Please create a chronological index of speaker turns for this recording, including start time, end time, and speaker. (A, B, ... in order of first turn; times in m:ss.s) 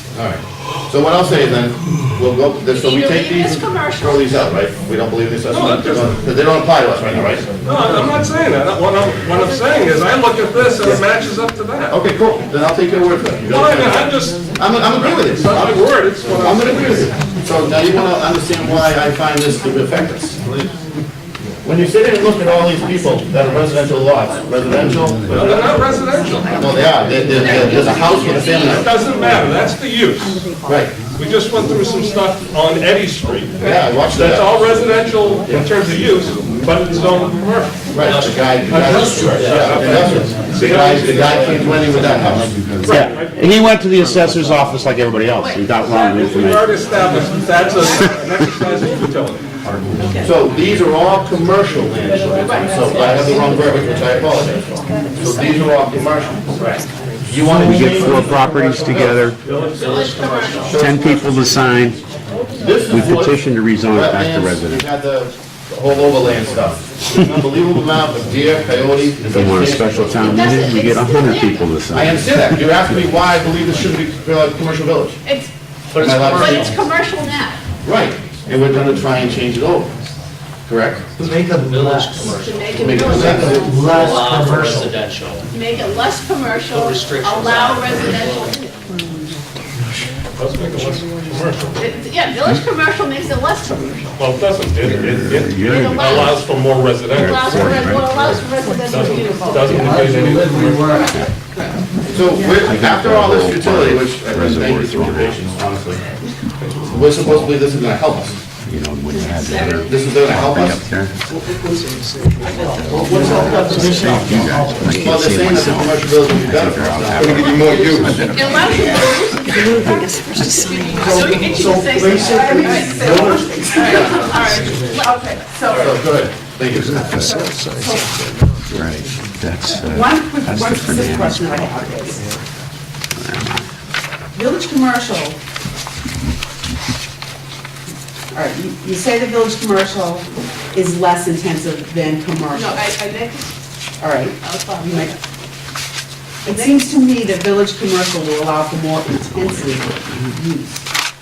0:00.1-0:07.5 A
0:02.7-0:04.4 B
0:05.5-0:06.2 C
0:07.6-0:11.9 C
0:11.9-0:20.7 A
0:13.4-0:17.1 C
0:21.6-0:25.8 A
0:25.3-0:26.7 C
0:26.6-0:28.9 A
0:27.5-0:28.8 B
0:28.6-0:30.4 C
0:30.6-0:31.0 A
0:31.1-0:42.2 C
0:33.6-0:34.5 A
0:37.9-0:42.6 A
0:39.2-0:39.7 D
0:40.3-0:40.6 E
0:41.9-0:46.7 F
0:42.8-0:43.4 C
0:45.4-0:46.4 B
0:45.9-0:49.4 C
0:47.8-0:48.1 B
0:50.2-0:59.3 A
0:52.4-0:53.4 B
0:57.5-0:59.4 F
0:57.8-0:58.8 G
0:59.6-1:00.7 D
0:59.8-1:00.9 B
1:00.6-1:01.4 A
1:00.7-1:02.0 F
1:02.6-1:03.4 A
1:02.8-1:04.8 F
1:03.9-1:10.5 A
1:09.3-1:13.2 F
1:10.3-1:11.7 B
1:11.9-1:15.2 A
1:15.2-1:15.5 B
1:15.9-1:16.7 A
1:16.0-1:17.6 B
1:17.8-1:19.9 A
1:20.7-1:21.1 A
1:21.2-1:24.9 G
1:21.5-1:23.2 D
1:22.2-1:24.6 B
1:22.8-1:23.7 A
1:23.8-1:25.4 D
1:25.5-1:28.8 B
1:26.7-1:28.5 D
1:30.4-1:31.8 C
1:31.8-1:34.2 B
1:34.2-1:37.8 C
1:34.8-1:36.4 F
1:35.6-1:36.4 B
1:37.1-1:38.1 F
1:37.1-1:40.1 B
1:38.8-1:41.0 C
1:40.2-1:40.8 G
1:40.7-1:41.8 B
1:41.0-1:41.3 F
1:42.1-1:46.0 A
1:42.6-1:45.4 F
1:46.9-1:48.4 A
1:47.1-1:47.5 F
1:48.6-1:51.2 F
1:49.1-1:50.1 B
1:49.8-1:50.8 A
1:51.4-1:55.0 G
1:52.5-1:59.1 F
1:53.1-1:53.5 E
1:55.0-1:58.2 A
1:58.3-2:05.8 B
2:00.9-2:04.1 G
2:01.0-2:06.0 E
2:05.8-2:07.3 A
2:06.9-2:08.1 E
2:08.7-2:11.8 F
2:09.7-2:12.3 E
2:13.1-2:13.7 F
2:14.3-2:15.4 E
2:18.3-2:22.8 E
2:22.5-2:23.6 B
2:24.0-2:25.1 E
2:24.4-2:25.2 B
2:26.4-2:26.9 B
2:26.4-2:30.8 E
2:29.1-2:30.4 F